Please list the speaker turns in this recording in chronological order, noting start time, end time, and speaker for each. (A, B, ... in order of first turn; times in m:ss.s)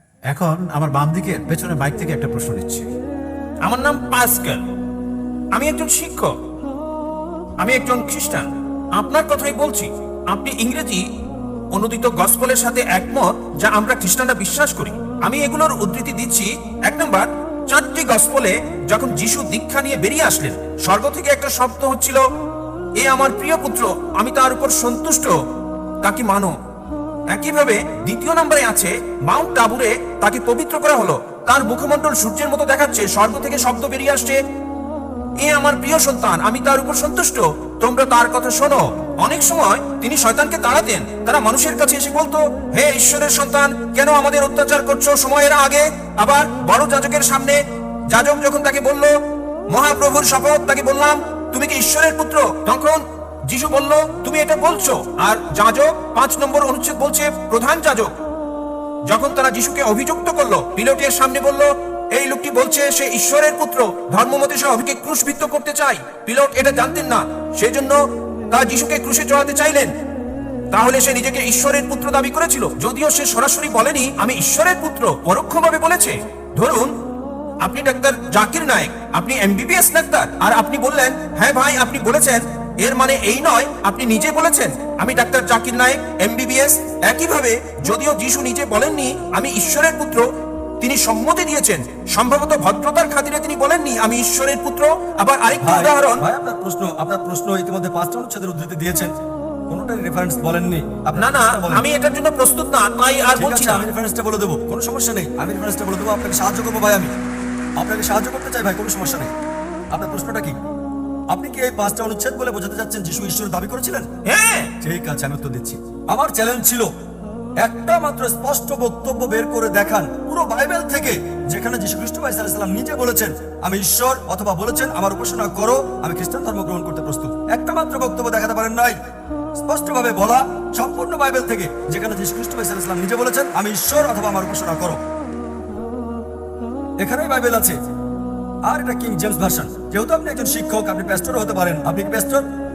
0:00.3-0:02.9 A
0:03.6-0:04.6 B
0:05.5-0:06.3 B
0:07.6-0:11.0 B
0:11.7-0:22.2 B
0:23.0-0:25.3 B
0:26.0-0:26.5 B
0:27.3-0:34.4 B
0:35.4-0:47.6 B
0:48.1-0:49.1 B
0:49.7-0:58.1 B
0:59.1-1:08.0 B
1:08.5-1:09.9 B
1:10.7-1:16.9 B
1:17.6-1:30.2 B
1:30.8-1:36.2 B
1:35.6-1:39.1 C
1:39.7-1:41.8 C
1:41.2-1:43.8 B
1:43.4-1:47.1 C
1:47.8-1:49.3 C
1:49.9-1:50.6 C
1:51.3-1:54.1 C
1:54.3-1:54.7 B
1:54.8-1:56.9 C
1:57.6-2:09.0 C
2:09.6-2:15.0 C
2:17.0-2:17.8 C
2:18.6-2:22.4 C